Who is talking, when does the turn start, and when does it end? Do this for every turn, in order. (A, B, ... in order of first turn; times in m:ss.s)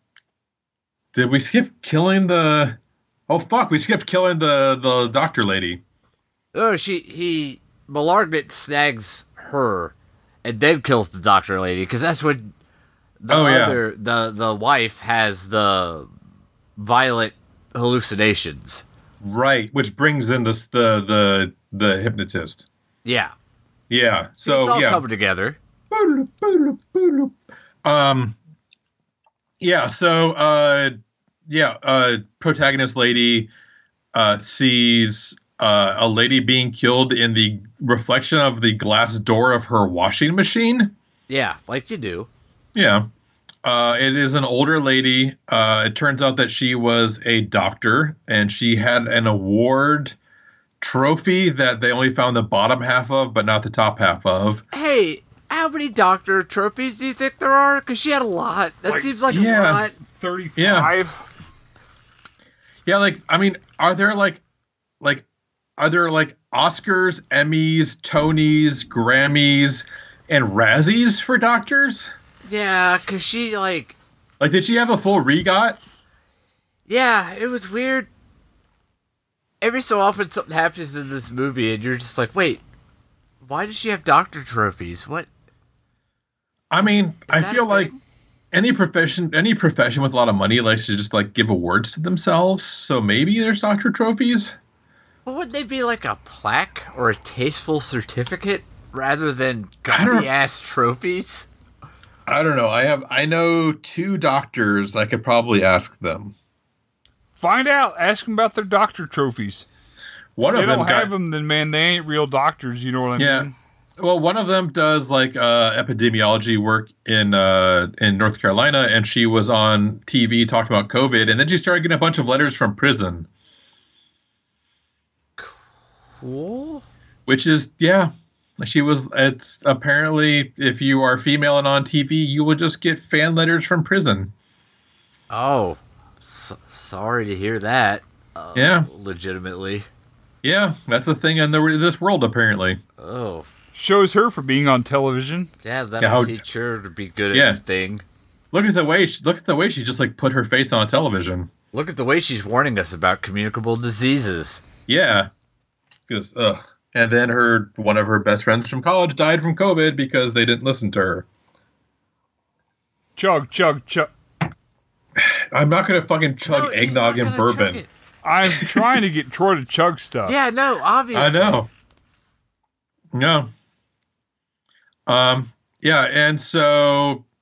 0:01.1-0:02.8 A
0:03.3-0:05.8 A
0:06.5-0:12.5 B
0:13.2-0:16.1 B
0:13.3-0:13.8 A
0:16.8-0:18.8 B
0:19.2-0:22.6 A
0:23.0-0:23.3 B
0:23.9-0:25.0 A
0:24.4-0:25.6 B
0:25.9-0:28.4 A
0:29.6-0:30.9 A
0:31.5-0:33.5 A
0:34.1-0:40.9 A
0:41.3-0:42.3 B
0:42.7-0:43.1 A
0:43.6-0:50.2 A
0:50.8-0:54.6 A
0:54.7-1:00.0 B
0:58.9-0:59.4 C
0:59.3-0:59.8 A
1:00.0-1:01.2 C
1:00.6-1:00.9 A
1:02.8-1:04.4 A
1:05.0-1:05.2 A
1:05.8-1:12.1 A
1:12.4-1:14.0 B
1:14.4-1:15.8 A
1:16.9-1:18.1 B
1:19.6-1:22.6 B
1:23.4-1:25.3 B
1:26.7-1:27.9 A
1:27.2-1:28.0 B
1:28.5-1:34.5 A
1:35.2-1:41.5 B
1:39.9-1:40.3 A
1:42.3-1:46.3 A
1:47.4-1:49.6 C
1:50.4-1:51.1 A
1:50.4-1:53.5 C
1:53.2-2:03.3 A
2:06.2-2:06.8 B
2:07.3-2:14.3 A
2:15.3-2:19.9 B
2:18.5-2:18.9 A
2:20.4-2:22.8 A
2:23.0-2:23.5 B
2:23.7-2:25.5 C
2:25.6-2:28.0 B
2:26.0-2:26.4 A
2:27.3-2:27.6 A
2:28.5-2:31.5 A
2:31.7-2:34.6 B
2:34.9-2:35.3 A
2:36.1-2:41.2 A
2:43.2-2:44.1 C
2:45.2-2:47.8 A
2:46.4-2:47.9 B
2:48.2-2:50.3 C
2:48.4-2:49.0 A
2:50.2-2:51.6 B
2:51.1-2:51.7 A
2:53.1-2:53.5 A
2:55.1-2:57.2 A